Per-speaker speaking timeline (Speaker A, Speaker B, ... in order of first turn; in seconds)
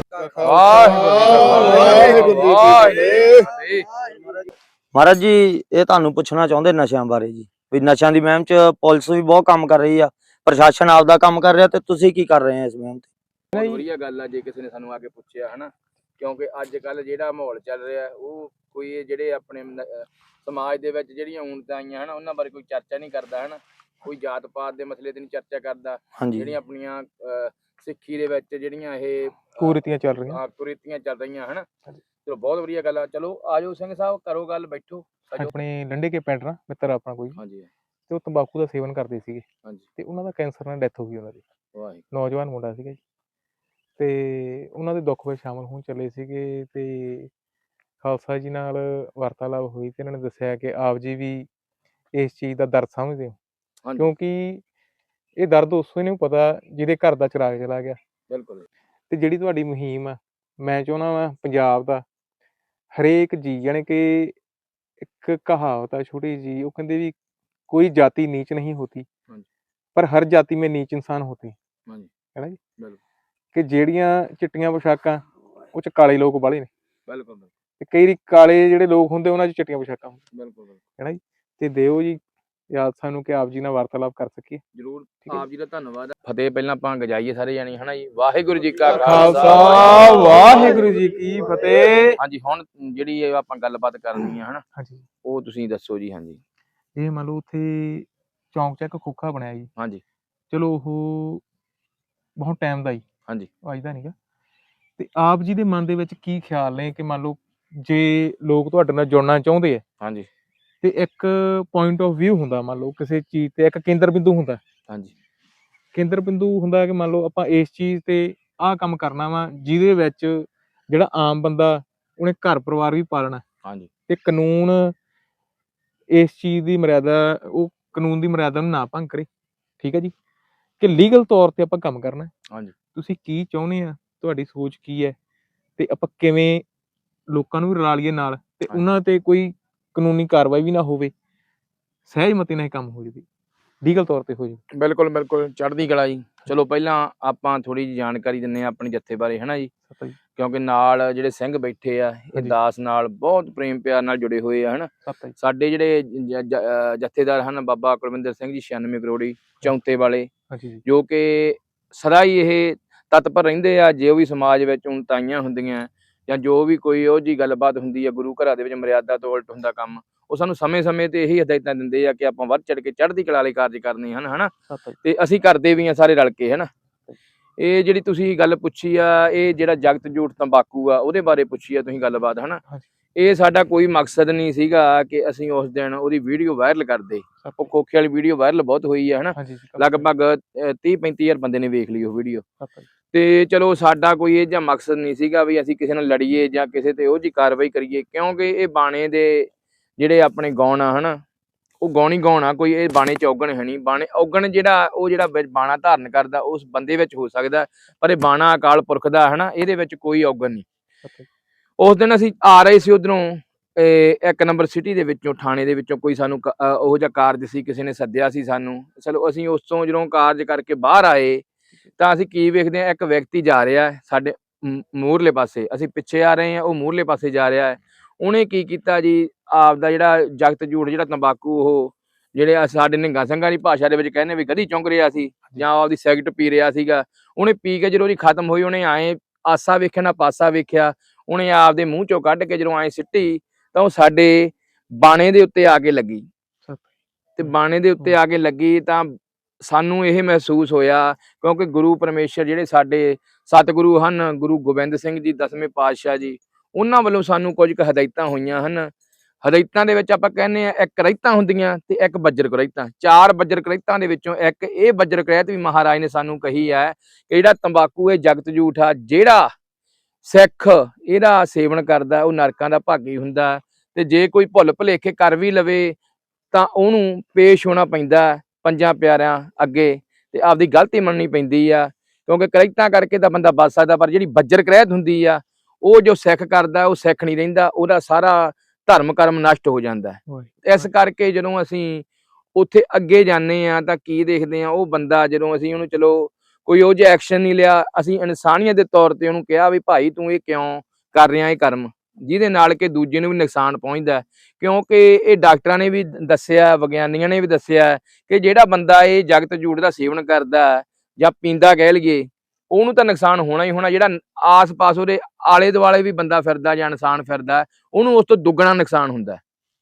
Speaker A: 0.2-2.5, 13.5-13.8, 29.6-30.4, 35.4-37.4, 38.1-39.5, 40.0-41.4, 42.1-43.0, 44.0-47.3, 48.0-51.5, 52.1-53.4, 54.0-54.6, 55.4-58.0, 59.1-62.0, 63.0-64.3, 65.0-67.1, 67.7-69.1, 70.0-71.5, 73.5-75.2, 75.7-76.7, 77.8-80.2, 81.0-84.6, 88.9-92.2, 94.8-95.1, 97.0-99.7, 100.5-101.4, 102.4-103.0, 103.6-104.1, 105.0-109.8, 110.8-114.6, 115.9-123.4, 124.1-125.0, 126.1-129.3, 129.8-130.1, 130.8-132.3, 132.9-135.2, 135.8-136.6, 137.3-141.1, 142.1-143.2, 143.8-144.6, 149.9-150.2, 155.1-155.4, 160.5-160.8, 174.7-175.0, 187.4-187.7, 189.4-190.1, 192.6-192.9, 247.4-248.2, 290.3-290.9
Speaker B: 0.4-3.9, 13.5-29.7, 30.3-31.7, 32.2-35.5, 37.4-37.7, 41.8-42.0, 58.3-58.7, 77.1-77.5, 80.3-80.8, 84.8-90.5, 92.2-94.6, 95.2-96.4, 99.8-100.0, 110.0-110.3, 123.6-123.9, 144.7-149.7, 150.3-160.3, 160.8-174.5, 175.0-176.7, 177.6-182.6, 183.2-192.4, 193.1-201.2, 201.8-210.6, 211.8-221.4, 222.0-246.2, 247.4-249.1, 249.6-258.9, 259.4-269.5, 270.2-276.0, 276.5-319.4
Speaker C: 4.9-13.1, 26.2-26.5